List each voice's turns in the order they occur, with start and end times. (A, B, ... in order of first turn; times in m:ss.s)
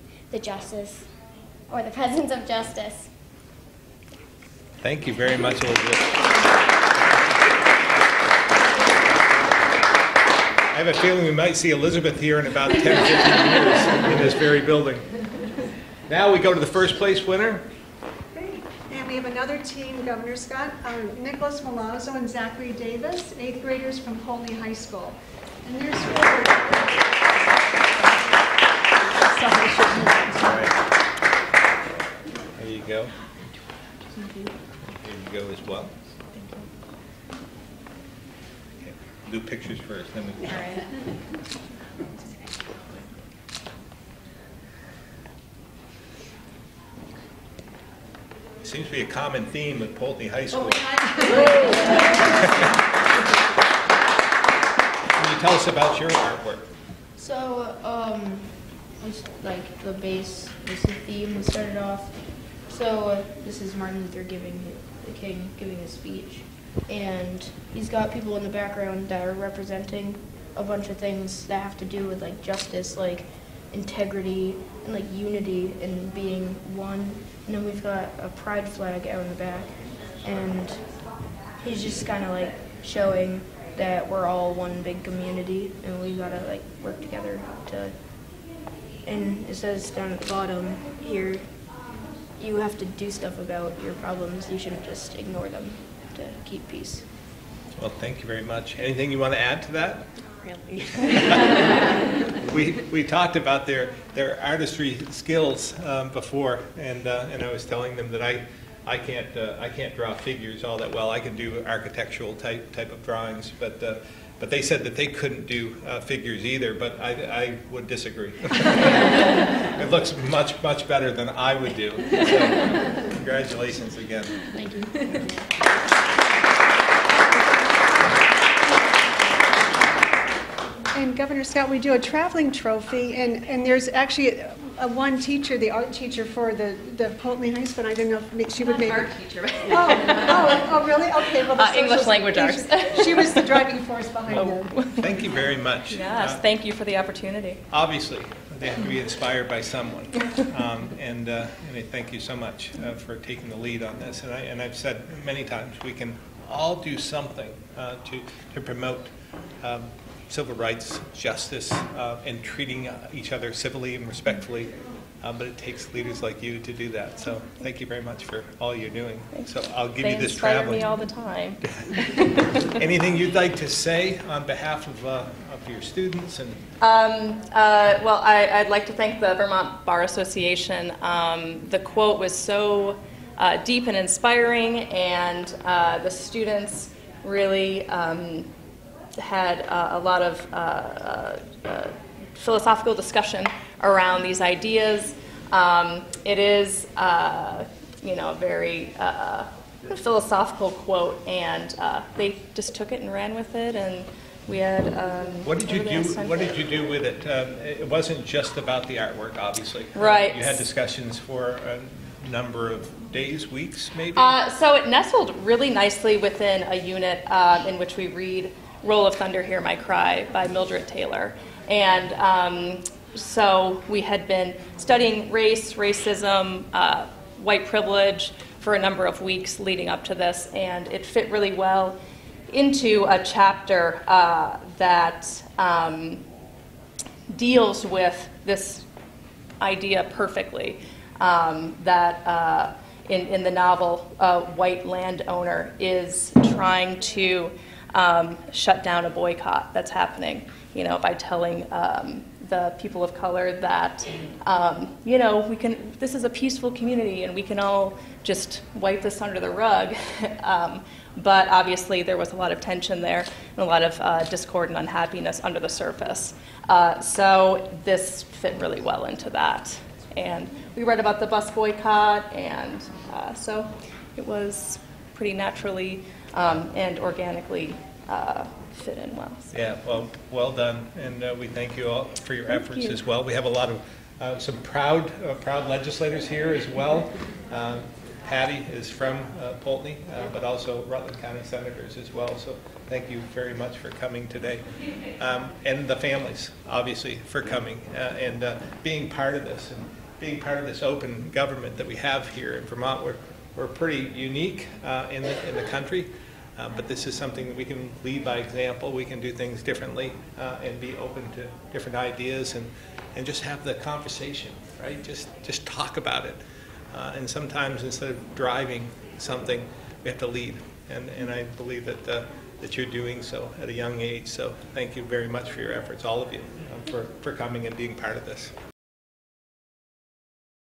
0:00.3-0:01.1 A
0:01.7-0:03.1 A
0:04.8-0:06.2 B
0:10.7-0:15.0 B
0:16.1-0:17.6 B
0:18.3-0:27.1 C
0:29.0-0:30.6 C
0:30.4-0:30.7 B
0:32.6-0:33.1 B
0:34.2-0:34.5 D
0:34.8-0:35.9 B
0:38.8-0:40.8 B
0:48.6-0:52.7 B
0:55.2-0:56.6 B
0:57.2-1:28.1 D
1:29.0-1:31.8 D
1:32.4-1:37.1 D
1:37.8-1:40.1 B
1:40.8-1:41.8 B
1:42.4-2:04.4 B
2:04.5-2:05.4 D
2:10.9-2:19.1 C
2:18.6-2:23.7 E
2:19.6-2:24.8 C
2:24.3-2:25.2 E
2:25.0-2:26.4 B
2:25.9-2:27.6 E
2:27.7-2:50.9 B
2:49.3-2:52.5 E
2:51.6-2:56.6 B
2:56.8-3:08.5 E
3:09.2-3:26.7 E
3:25.4-3:34.4 B
3:29.9-3:30.6 E
3:34.1-3:52.0 E
3:52.5-3:56.2 E
3:57.3-3:58.8 E
3:59.6-4:39.5 E
4:39.5-4:54.6 B
4:42.5-4:43.0 E
4:55.2-5:16.4 B
5:16.9-5:28.5 B